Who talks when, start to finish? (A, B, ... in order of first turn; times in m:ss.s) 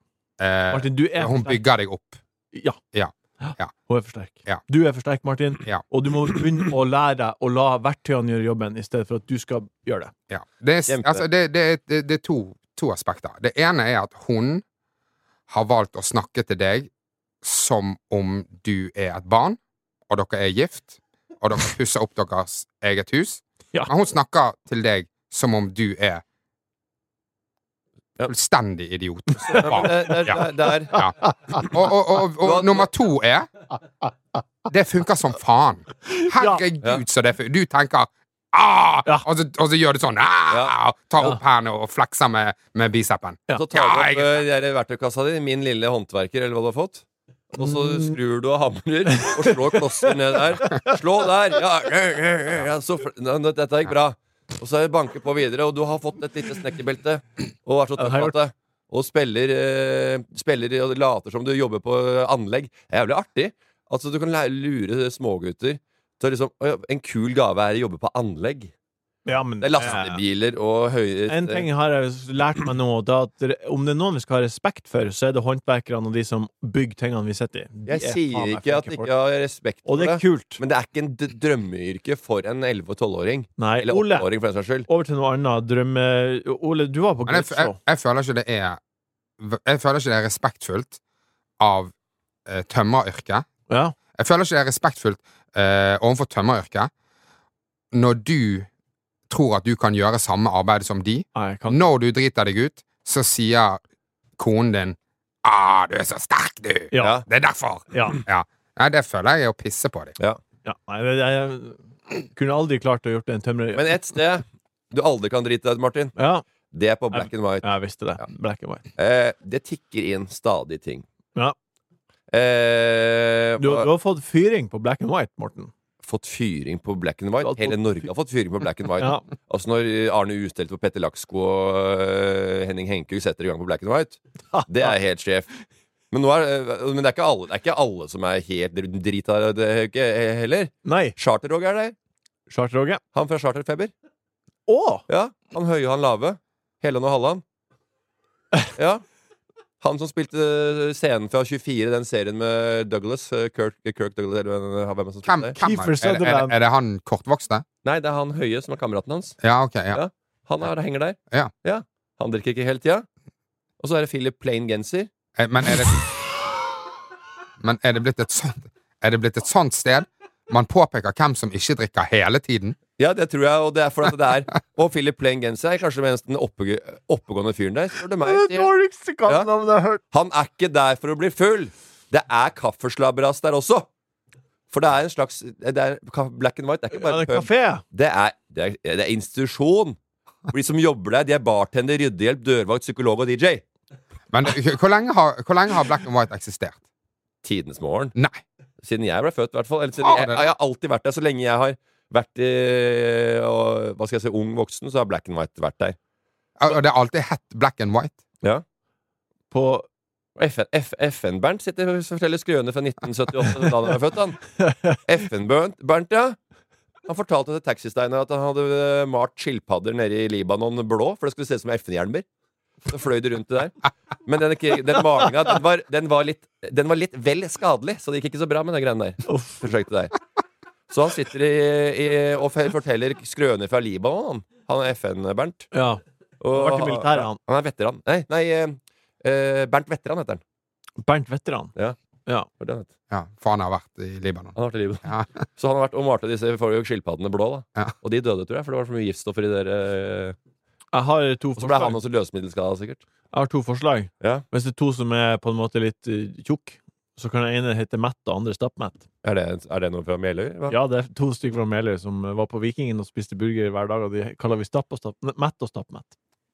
0:00.4-0:02.2 A
0:00.7-0:01.6 B
0:02.5-0:02.8 B
0:02.9-0:03.7 A
0:03.4-0:10.1 B
0:10.3-0:14.6 A
0:10.9-0:11.2 C
0:15.5-0:16.9 A
0:17.4-0:19.6 A
0:20.1-0:26.2 A
0:28.3-0:30.4 A
0:29.4-0:30.4 B
0:29.6-0:31.1 C
0:30.9-0:33.5 A
0:30.9-0:31.6 B
0:32.4-0:32.9 C
0:34.7-0:44.4 A
0:36.1-0:36.6 B
0:40.5-0:40.8 C
0:43.6-1:08.7 C
0:47.6-0:48.2 B
0:49.2-0:50.1 B
0:50.6-0:51.0 B
0:58.0-0:58.4 B
1:09.3-1:10.2 B
1:09.6-1:11.7 C
1:11.3-1:19.1 B
1:17.9-1:24.9 C
1:19.9-1:20.6 B
1:23.6-1:24.3 B
1:24.9-1:27.8 B
1:27.3-1:28.8 A
1:29.4-1:31.0 A
1:31.6-1:31.9 A
1:32.5-1:33.5 A
1:33.7-1:34.0 B
1:34.2-1:36.9 A
1:37.9-1:38.7 A
1:39.3-1:43.8 A
1:41.4-1:41.8 B
1:44.4-1:50.2 A
1:46.9-1:47.2 B
1:47.0-1:47.2 C
1:47.9-1:48.2 B
1:50.6-1:51.8 B
1:52.3-1:53.9 B
1:53.7-1:56.2 C
1:56.2-1:56.4 B
1:56.7-1:57.7 C
1:57.1-1:58.8 B
1:59.0-2:01.0 C
2:02.3-2:03.9 C
2:03.6-2:05.7 B
2:06.0-2:15.5 C
2:07.4-2:08.1 B
2:14.5-2:14.9 B
2:16.1-2:22.0 C
2:20.8-2:21.2 B
2:22.5-2:23.0 B
2:23.1-2:23.9 C
2:24.7-2:25.0 B
2:25.1-2:27.4 C
2:28.8-2:29.0 C
2:29.8-2:35.5 C
2:35.3-2:37.6 A
2:35.6-2:36.6 B
2:37.8-2:39.4 C
2:39.4-2:40.0 A
2:39.9-2:43.1 C
2:43.8-2:45.1 C
2:45.4-2:46.3 A
2:47.6-2:52.8 A
2:53.0-2:58.7 C
2:58.2-3:00.0 B
3:00.1-3:03.9 C
3:04.7-3:10.0 C
3:06.9-3:07.8 B
3:10.5-3:13.6 C
3:14.3-3:16.8 A
3:17.4-3:18.2 C
3:18.2-3:18.4 A
3:18.8-3:26.0 C
3:20.0-3:20.4 A
3:26.6-3:28.2 A
3:29.5-3:29.9 B
3:30.4-3:34.5 C
3:34.6-3:35.0 B
3:35.0-3:36.4 C
3:37.1-3:42.2 C
3:42.9-3:50.2 C
3:49.3-3:49.6 B
3:50.9-3:55.7 C
3:55.7-3:56.0 B
3:56.4-4:00.4 C
3:56.5-3:57.4 B
4:01.0-4:01.7 B
4:02.6-4:02.9 C
4:03.1-4:05.3 A
4:04.6-4:10.4 C
4:10.9-4:12.0 B
4:11.6-4:13.0 C
4:13.3-4:19.0 B
4:19.2-4:20.8 C
4:20.7-4:26.2 B